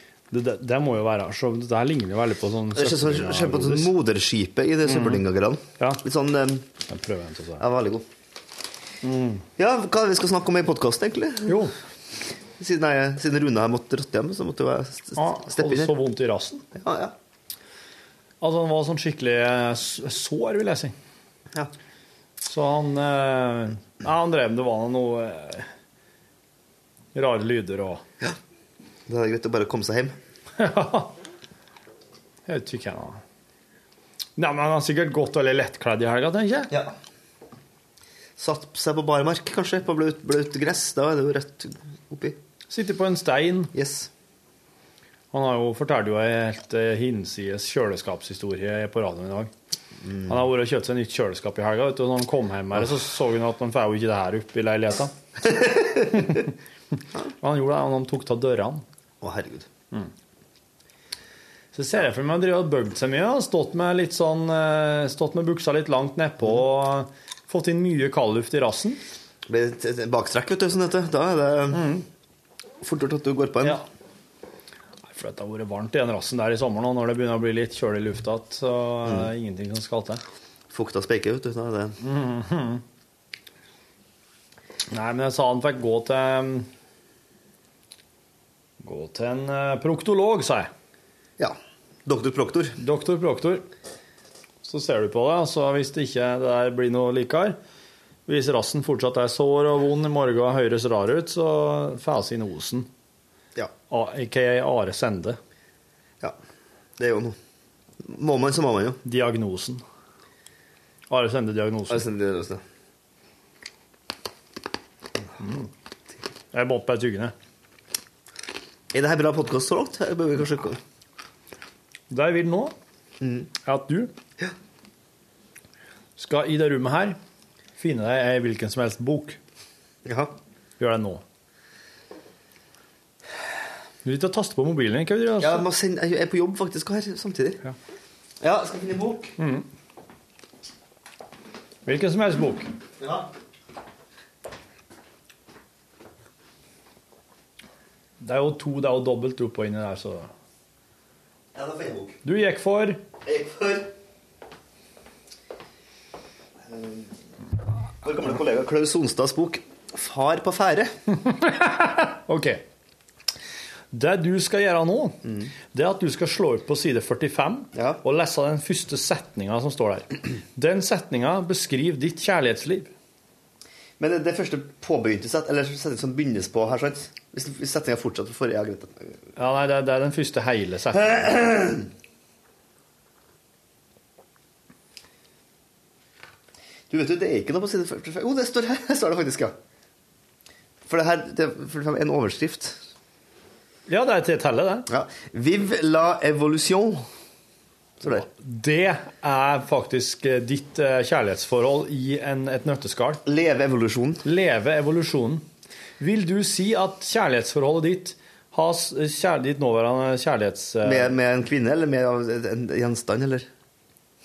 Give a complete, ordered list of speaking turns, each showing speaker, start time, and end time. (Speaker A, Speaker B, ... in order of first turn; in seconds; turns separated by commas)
Speaker A: 0.3-3.9, Speaker B: 2.8-6.7, Speaker A: 4.9-5.2, Speaker A: 6.9-7.6, Speaker B: 7.6-8.1, Speaker A: 9.0-9.5, Speaker B: 9.6-11.6, Speaker A: 11.5-11.8, Speaker B: 12.6-15.9, Speaker A: 15.2-16.6, Speaker B: 16.8-17.1, Speaker A: 18.4-21.0, Speaker A: 22.4-25.7, Speaker A: 27.1-28.0, Speaker B: 29.1-30.1, Speaker A: 30.6-31.1, Speaker A: 32.5-33.2, Speaker A: 34.4-36.7, Speaker B: 38.4-42.4, Speaker A: 42.7-43.7, Speaker B: 43.7-44.1, Speaker A: 45.3-49.5, Speaker B: 50.0-50.4, Speaker A: 50.3-55.1, Speaker B: 55.6-56.3, Speaker A: 56.1-56.5, Speaker A: 57.4-58.8, Speaker B: 59.2-59.7, Speaker A: 61.7-69.0, Speaker B: 69.5-71.9, Speaker A: 71.7-72.0, Speaker B: 72.8-73.8, Speaker A: 75.1-80.2, Speaker B: 80.7-82.0, Speaker A: 82.0-82.8, Speaker A: 84.9-86.7, Speaker A: 88.8-90.7, Speaker B: 91.4-92.8, Speaker A: 92.8-93.7, Speaker A: 94.6-97.6, Speaker A: 98.3-102.9, Speaker A: 103.9-105.4, Speaker B: 107.0-107.4, Speaker B: 108.0-109.0, Speaker A: 109.0-109.8, Speaker A: 111.1-112.1, Speaker B: 111.9-112.6, Speaker A: 115.4-115.7, Speaker A: 116.5-117.3, Speaker B: 118.9-120.8, Speaker A: 122.1-122.7, Speaker B: 123.2-123.5, Speaker A: 123.6-124.1, Speaker A: 126.2-127.2, Speaker A: 127.8-129.4, Speaker B: 130.1-130.3, Speaker A: 130.8-131.2, Speaker A: 134.0-135.7, Speaker B: 135.4-137.6, Speaker B: 138.4-139.4, Speaker A: 139.4-139.7, Speaker A: 141.8-142.7, Speaker B: 143.0-143.3, Speaker A: 148.2-150.3, Speaker B: 151.5-152.2, Speaker A: 152.2-153.0, Speaker B: 153.2-153.9, Speaker B: 156.7-157.1, Speaker B: 158.0-161.0, Speaker A: 161.2-162.7, Speaker A: 163.9-172.9, Speaker B: 165.3-165.5, Speaker B: 167.8-168.0, Speaker B: 174.0-179.2, Speaker A: 179.4-181.3, Speaker B: 181.1-181.9, Speaker B: 186.9-189.5, Speaker B: 190.9-192.8, Speaker A: 193.9-194.9, Speaker B: 194.9-197.0, Speaker A: 198.0-203.2, Speaker B: 203.3-204.2, Speaker A: 204.2-205.5, Speaker A: 206.0-211.2, Speaker B: 210.8-213.5